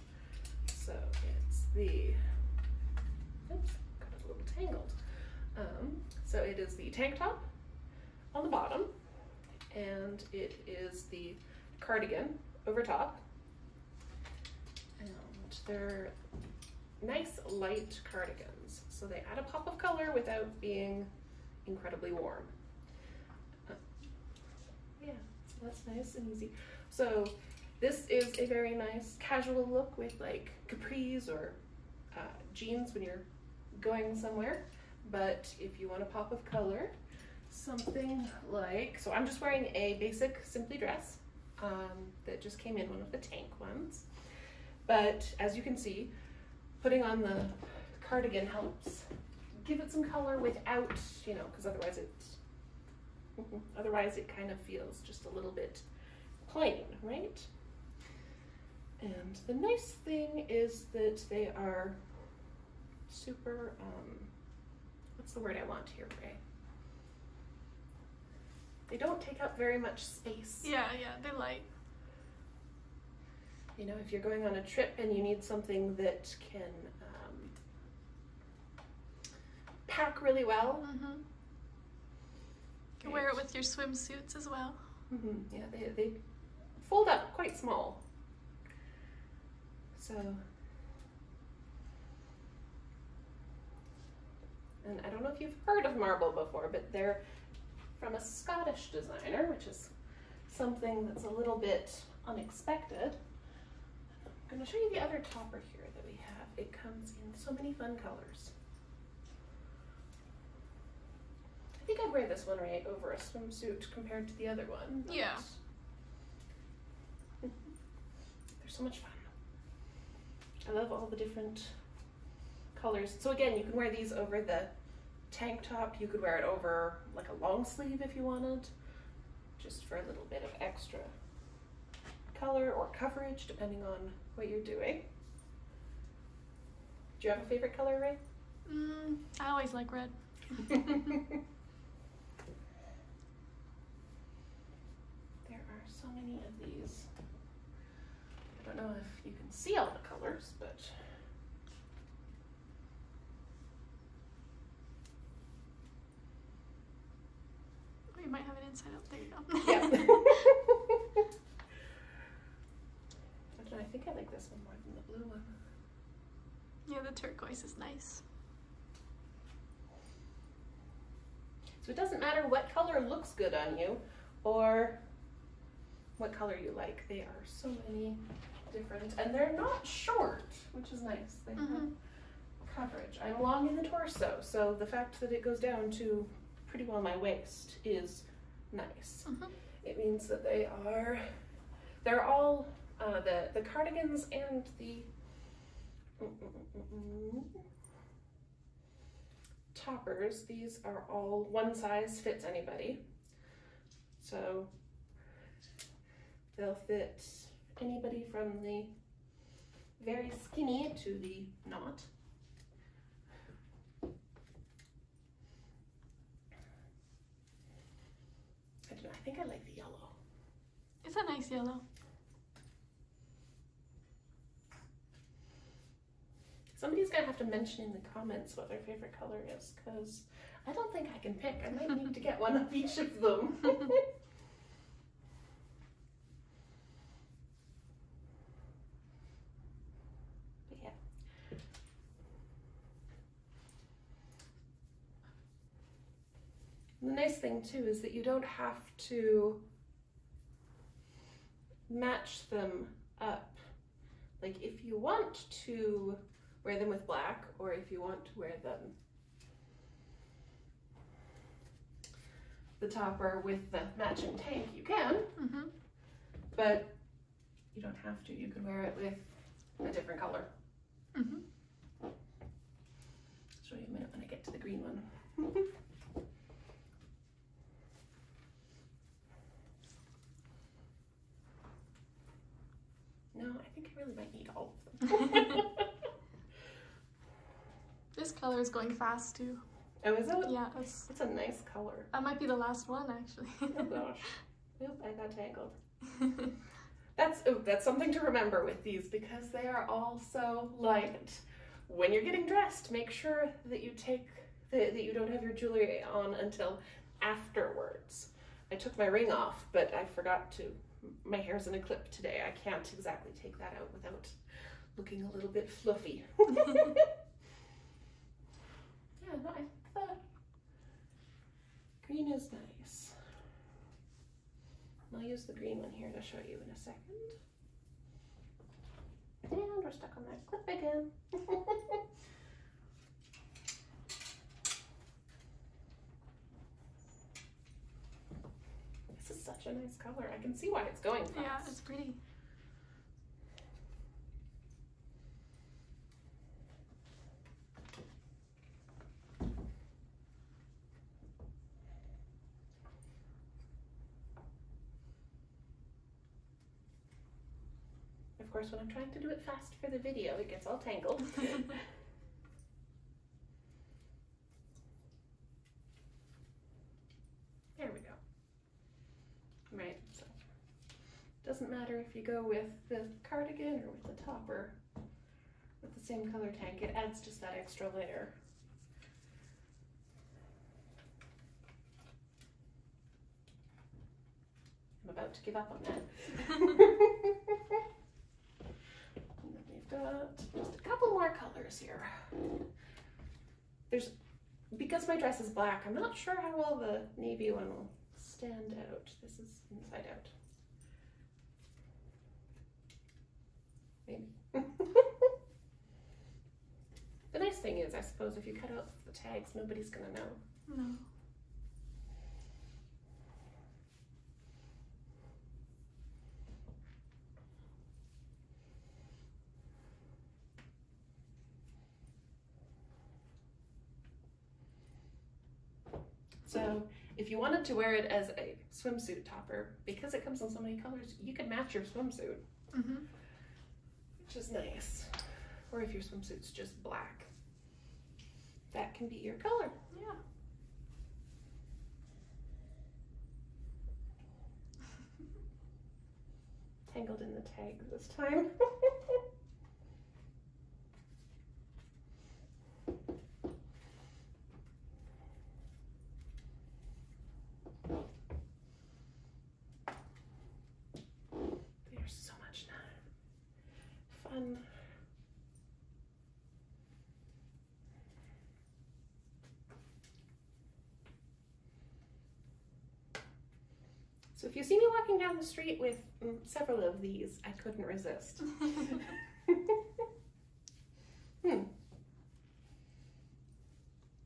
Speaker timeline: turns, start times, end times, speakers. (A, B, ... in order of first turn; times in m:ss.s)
0:00.7-0:02.2 A
0:03.4-0:05.0 A
0:05.5-0:07.4 A
0:08.3-0:08.9 A
0:09.7-0:13.2 A
0:15.0-0:16.1 A
0:17.0-0:21.1 A
0:21.6-0:22.5 A
0:25.0-0:31.6 A
0:32.1-0:36.9 A
0:37.5-0:44.0 A
0:44.8-0:46.1 A
0:46.8-0:52.4 A
0:53.4-0:55.8 A
0:56.4-0:57.5 A
0:59.0-1:02.0 A
1:03.1-1:04.3 A
1:05.2-1:06.4 A
1:08.9-1:10.7 A
1:10.6-1:11.6 B
1:13.8-1:17.5 A
1:19.9-1:20.9 A
1:20.8-1:21.2 B
1:23.0-1:24.8 B
1:23.0-1:23.3 A
1:25.1-1:26.2 A
1:26.8-1:28.0 A
1:29.9-1:30.4 A
1:34.8-1:37.2 A
1:38.0-1:39.9 A
1:40.5-1:43.2 A
1:44.4-1:48.5 A
1:51.8-1:55.6 A
1:55.1-1:55.4 B
1:58.6-1:59.3 A
2:00.6-2:01.7 A
2:02.7-2:04.7 A
2:05.3-2:08.7 A
2:09.6-2:11.1 A
2:12.3-2:15.1 A
2:17.2-2:18.2 A
2:18.6-2:20.7 B
2:20.7-2:21.1 A
2:25.4-2:27.1 A
2:28.5-2:30.9 A
2:38.1-2:40.4 B
2:39.6-2:40.8 A
2:43.6-2:45.5 A
2:46.9-2:48.2 B
2:51.8-2:55.0 A
2:56.2-3:01.9 A
3:01.6-3:01.9 B
3:02.6-3:09.3 A
3:09.2-3:09.5 B
3:09.8-3:11.3 A
3:12.0-3:15.1 A
3:16.2-3:17.6 A
3:19.7-3:23.0 A
3:24.2-3:24.7 A
3:26.5-3:28.9 A
3:30.0-3:32.1 A
3:38.9-3:40.2 A
3:41.0-3:41.8 B
3:46.7-3:54.0 A
4:00.7-4:01.0 A
4:07.0-4:09.6 A
4:11.9-4:13.6 A
4:14.4-4:18.9 A
4:22.8-4:25.4 A
4:25.4-4:25.7 B
4:26.5-4:26.9 A
4:27.7-4:30.5 A
4:31.1-4:31.4 B
4:33.6-4:35.7 A
4:43.3-4:45.8 A
4:48.1-4:49.6 B
4:50.0-4:52.1 A
4:50.4-4:51.1 B
4:52.1-4:54.0 B
4:53.7-4:55.7 A
4:57.2-5:14.4 A
5:14.9-5:17.1 A
5:19.2-5:20.2 A
5:22.0-5:23.1 A
5:25.1-5:27.4 A
5:29.4-5:32.0 A
5:39.1-5:41.7 A
5:41.3-5:42.2 B
5:58.4-6:01.7 A
6:07.8-6:08.2 A
6:09.7-6:10.3 A
6:11.4-6:14.8 A
6:15.8-6:18.4 A
6:25.0-6:27.6 A
6:29.4-6:32.4 A
6:34.7-6:40.3 A
6:44.0-6:45.3 A
6:47.3-6:50.4 A
6:50.7-6:51.0 B
7:06.4-7:12.4 A
7:12.7-7:13.0 B
7:14.2-7:15.1 A
7:15.7-7:17.3 A
7:18.7-7:19.8 A
7:19.9-7:20.2 B
7:26.9-7:29.2 A
7:41.8-7:42.9 A
7:44.1-7:44.6 A
7:54.3-7:59.8 A
8:01.4-8:01.7 A